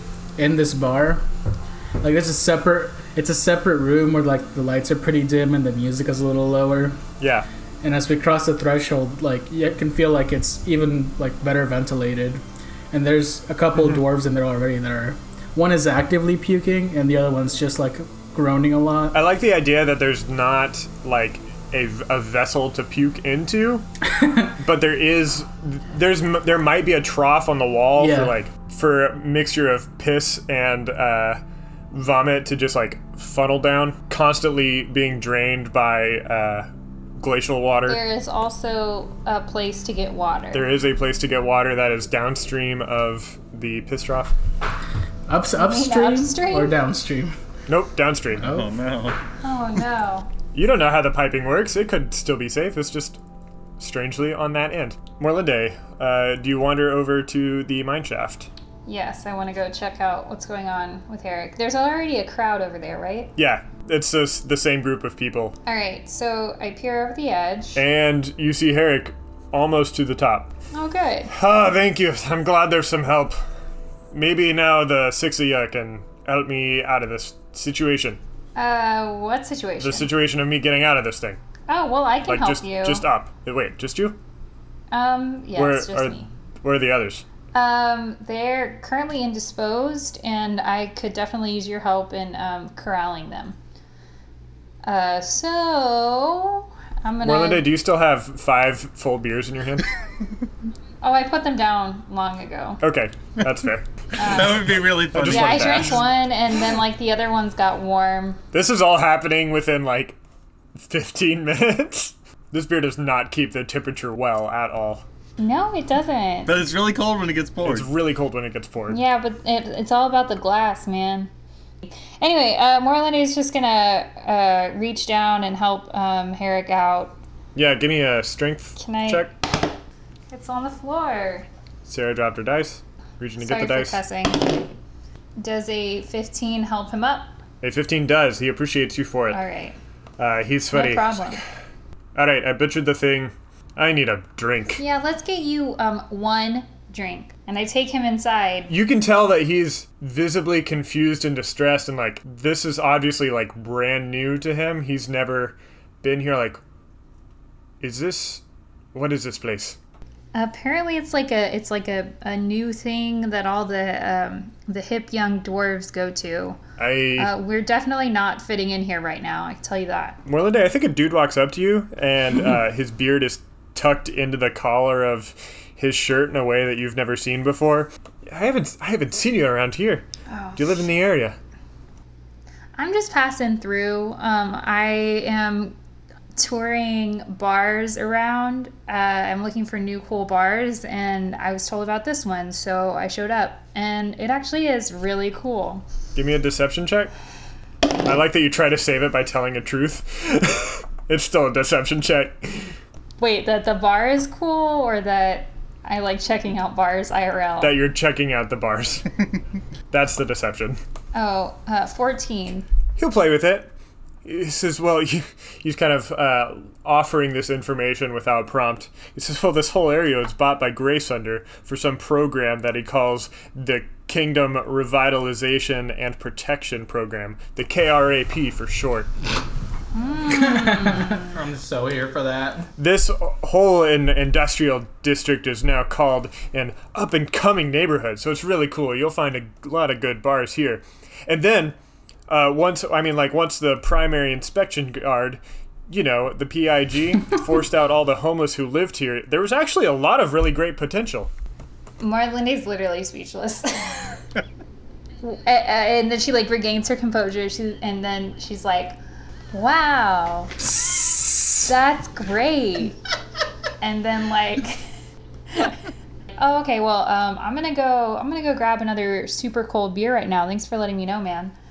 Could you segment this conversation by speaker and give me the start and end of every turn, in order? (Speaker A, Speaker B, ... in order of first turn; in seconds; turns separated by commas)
Speaker A: 0.4-1.2, Speaker A: 2.0-7.0, Speaker B: 7.2-7.5, Speaker A: 7.8-19.2, Speaker B: 13.8-14.0, Speaker B: 19.1-23.9, Speaker A: 24.1-24.5, Speaker B: 24.6-38.0, Speaker A: 28.0-28.4, Speaker C: 37.9-40.7, Speaker B: 40.5-44.3, Speaker A: 45.3-47.3, Speaker C: 45.6-46.8, Speaker B: 47.7-48.6, Speaker D: 48.4-49.2, Speaker C: 49.4-50.3, Speaker B: 50.5-53.2, Speaker B: 53.8-58.5, Speaker C: 58.9-63.3, Speaker B: 63.4-65.6, Speaker C: 65.7-67.8, Speaker B: 67.8-70.5, Speaker C: 70.7-71.3, Speaker B: 71.3-73.4, Speaker B: 74.1-78.2, Speaker C: 78.6-80.1, Speaker B: 79.8-81.4, Speaker C: 81.7-83.0, Speaker B: 82.3-84.2, Speaker C: 84.9-86.3, Speaker B: 85.5-87.2, Speaker C: 87.5-93.6, Speaker C: 94.8-97.7, Speaker B: 97.2-99.9, Speaker C: 101.0-102.8, Speaker B: 102.8-103.9, Speaker C: 104.2-108.4, Speaker D: 104.2-106.0, Speaker B: 105.1-106.1, Speaker B: 108.5-110.2, Speaker B: 110.8-115.0, Speaker C: 115.4-116.6, Speaker D: 116.5-117.9, Speaker B: 117.6-119.0, Speaker C: 118.9-121.3, Speaker C: 122.2-127.2, Speaker B: 127.5-129.3, Speaker C: 128.8-129.3, Speaker C: 130.3-131.5, Speaker B: 131.9-134.0, Speaker C: 133.4-134.6, Speaker C: 135.4-137.4, Speaker B: 137.6-139.4, Speaker C: 139.3-139.8, Speaker B: 140.2-141.4, Speaker C: 140.7-141.4, Speaker B: 142.2-144.8, Speaker C: 144.8-148.7, Speaker B: 148.7-156.6, Speaker B: 157.8-158.4, Speaker B: 158.9-159.8, Speaker C: 160.3-166.6, Speaker B: 166.8-167.3, Speaker C: 167.2-170.2, Speaker B: 170.3-181.4, Speaker C: 180.3-180.8, Speaker C: 182.8-185.8, Speaker C: 186.4-195.8, Speaker B: 196.2-197.1, Speaker B: 198.0-202.7, Speaker C: 203.2-207.8, Speaker B: 207.6-209.1, Speaker B: 209.9-210.8, Speaker C: 211.1-212.7, Speaker B: 213.0-213.7, Speaker B: 214.2-229.1, Speaker C: 229.9-231.2, Speaker E: 230.3-232.7, Speaker B: 232.8-241.8, Speaker B: 242.3-251.3, Speaker C: 252.0-254.2, Speaker C: 255.2-259.0, Speaker C: 259.5-260.6, Speaker C: 261.6-263.0, Speaker C: 263.8-264.9, Speaker C: 265.5-265.8, Speaker C: 266.4-271.5